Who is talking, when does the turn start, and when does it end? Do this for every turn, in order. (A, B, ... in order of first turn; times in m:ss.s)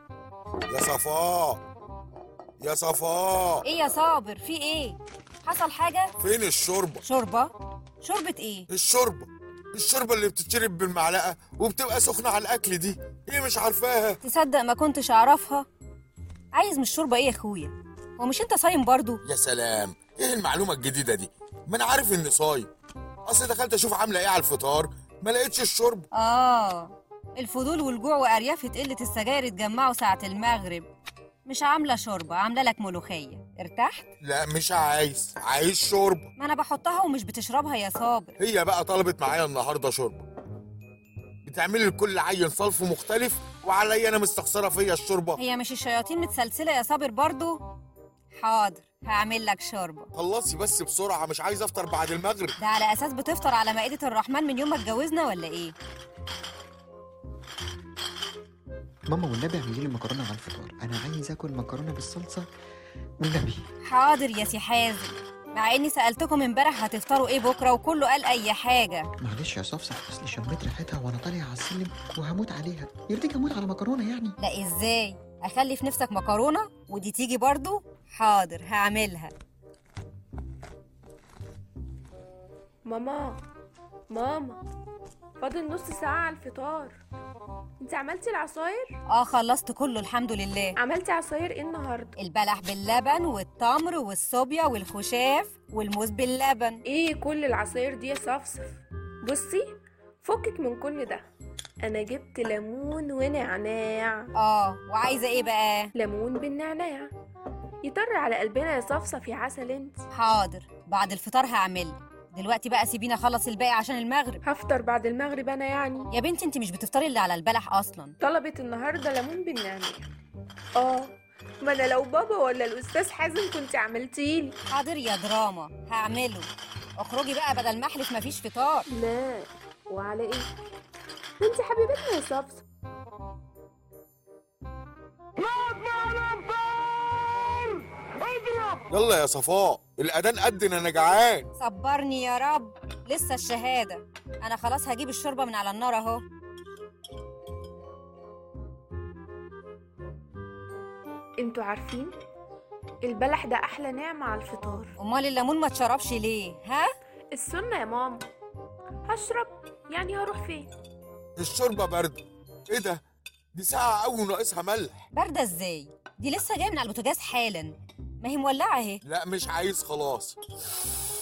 0:00.7-0:01.6 A
0:02.6-0:03.6 A
0:03.6-0:06.1 B
0:06.2-0:07.0 A
0:07.0-0:08.7 B
0:08.7-0:14.2 A
0:14.2-0:15.7 B
0:16.5-0:19.2 B
0:19.2-0:22.7 A
0:23.2-0:26.1 A
0:26.1-0:30.9 B
0:31.4-0:34.1 B
0:34.2-0:36.3 A
0:36.4-0:38.4 B
0:38.4-0:40.2 A
0:41.4-0:45.4 A
0:45.4-0:47.6 B
0:48.4-0:50.1 B
0:50.1-0:52.5 A
0:52.6-0:55.7 B
0:59.1-1:02.4 C
1:03.2-1:03.6 C
1:03.8-1:09.1 B
1:09.2-1:14.4 C
1:14.4-1:19.3 B
1:22.8-1:23.4 D
1:24.1-1:24.6 D
1:25.4-1:27.0 D
1:27.8-1:29.0 D
1:29.1-1:30.8 B
1:30.8-1:32.1 D
1:32.2-1:36.8 B
1:36.8-1:41.2 D
1:41.8-1:44.3 D
1:44.4-1:45.9 B
1:45.9-1:47.1 D
1:47.8-1:50.0 D
1:50.1-1:54.4 B
1:54.4-1:56.1 D
1:56.1-1:58.2 B
1:58.2-2:00.1 D
2:00.8-2:04.6 D
2:04.7-2:08.9 B
2:08.9-2:10.5 D
2:11.4-2:12.6 D
2:18.9-2:21.5 A
2:21.6-2:26.2 B
2:31.4-2:32.2 D
2:33.0-2:34.9 D
2:35.0-2:36.9 B
2:37.3-2:38.2 D
2:39.1-2:40.7 D
2:41.4-2:43.0 A
2:43.5-2:45.0 A
2:45.1-2:49.0 B
2:49.0-2:50.4 A